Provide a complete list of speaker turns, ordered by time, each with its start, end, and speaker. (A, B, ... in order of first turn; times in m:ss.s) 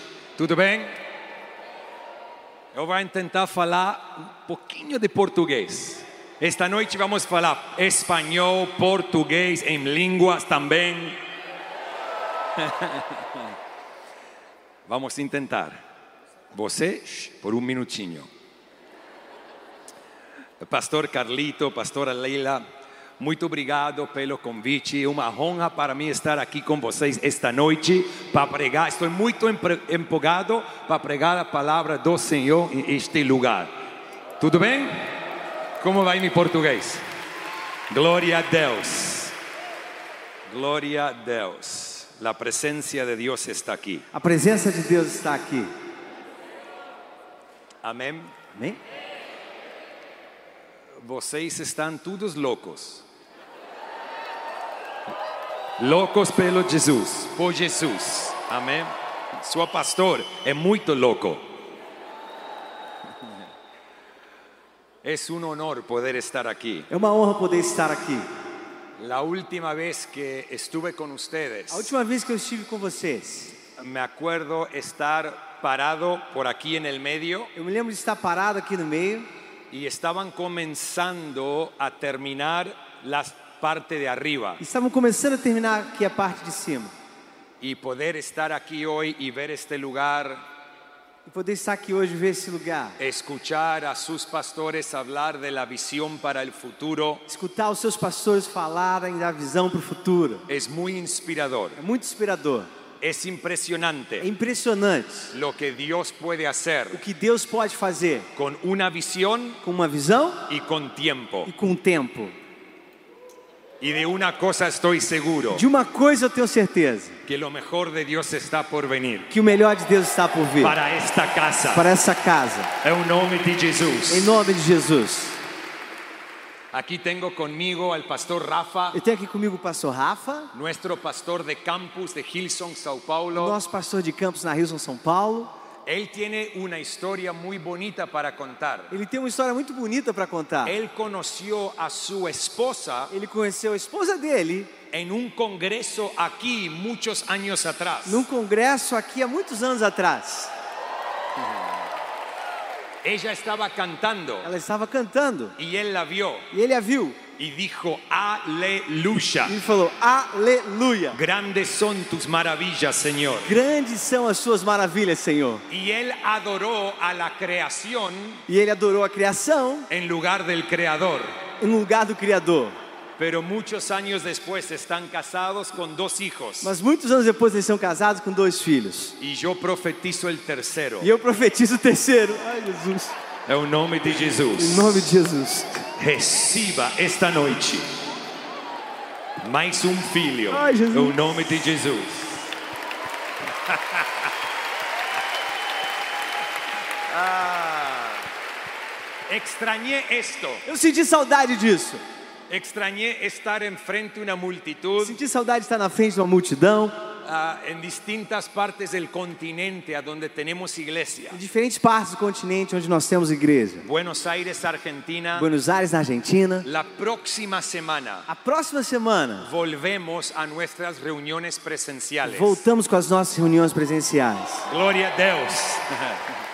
0:00.4-0:01.0 A
0:02.7-0:11.2 A
0:12.6-0:13.4 A
0:14.9-0:15.8 A
0:16.5-0:18.3 A
0:20.6-0:22.6 A
0:23.2-0:33.7 A
0:34.4-0:35.1 A
0:35.8-0:37.0 A
0:37.9-0:39.4 A
0:40.5-0:44.0 A
0:44.1-0:45.7 B
0:47.8-0:48.3 A
0:48.5-0:48.8 B
0:51.0-0:53.0 A
0:55.8-1:01.4 A
1:05.0-1:06.9 A
1:06.9-1:08.3 B
1:09.0-1:11.9 A
1:11.7-1:13.6 B
1:13.8-1:17.5 A
1:17.6-1:19.3 B
1:19.7-1:24.6 A
1:24.6-1:26.9 B
1:27.6-1:30.4 A
1:31.2-1:33.0 B
1:33.0-1:37.2 A
1:37.3-1:40.4 B
1:40.5-1:41.8 A
1:41.8-1:42.7 B
1:43.0-1:44.3 A
1:44.2-1:45.3 B
1:45.3-1:47.0 A
1:46.9-1:48.3 B
1:48.3-1:49.6 A
1:49.6-1:50.5 B
1:50.5-1:51.5 A
1:51.4-1:52.3 B
1:53.8-1:55.6 A
1:55.5-1:57.2 B
1:57.2-1:59.3 A
1:59.3-2:00.8 B
2:00.6-2:01.8 A
2:01.7-2:02.7 B
2:02.8-2:04.4 A
2:04.1-2:05.4 B
2:06.7-2:09.0 A
2:08.9-2:10.5 B
2:10.5-2:13.6 A
2:13.3-2:15.5 B
2:15.8-2:19.0 A
2:18.9-2:20.8 B
2:20.6-2:23.1 A
2:23.1-2:24.7 B
2:24.9-2:28.2 A
2:28.0-2:30.5 B
2:33.0-2:34.5 A
2:34.4-2:35.5 B
2:35.6-2:36.5 A
2:36.5-2:37.2 B
2:37.4-2:39.6 A
2:39.4-2:41.2 B
2:41.1-2:43.6 A
2:43.4-2:45.6 B
2:45.7-2:48.4 A
2:48.5-2:49.9 B
2:49.9-2:51.4 A
2:51.6-2:52.7 B
2:53.2-2:56.7 A
2:56.6-2:59.2 B
2:59.2-3:01.1 A
3:01.0-3:03.2 B
3:03.5-3:05.0 A
3:04.5-3:05.8 B
3:06.0-3:07.9 A
3:09.4-3:12.5 A
3:10.5-3:11.4 B
3:13.6-3:14.3 A
3:17.1-3:18.2 A
3:19.3-3:20.6 A
3:20.6-3:22.0 B
3:22.5-3:25.2 A
3:25.0-3:27.0 B
3:27.2-3:31.4 A
3:31.3-3:33.8 B
3:33.8-3:35.5 A
3:35.4-3:36.6 B
3:36.6-3:38.3 A
3:38.3-3:39.5 B
3:39.4-3:42.6 A
3:42.2-3:44.6 B
3:44.6-3:46.2 A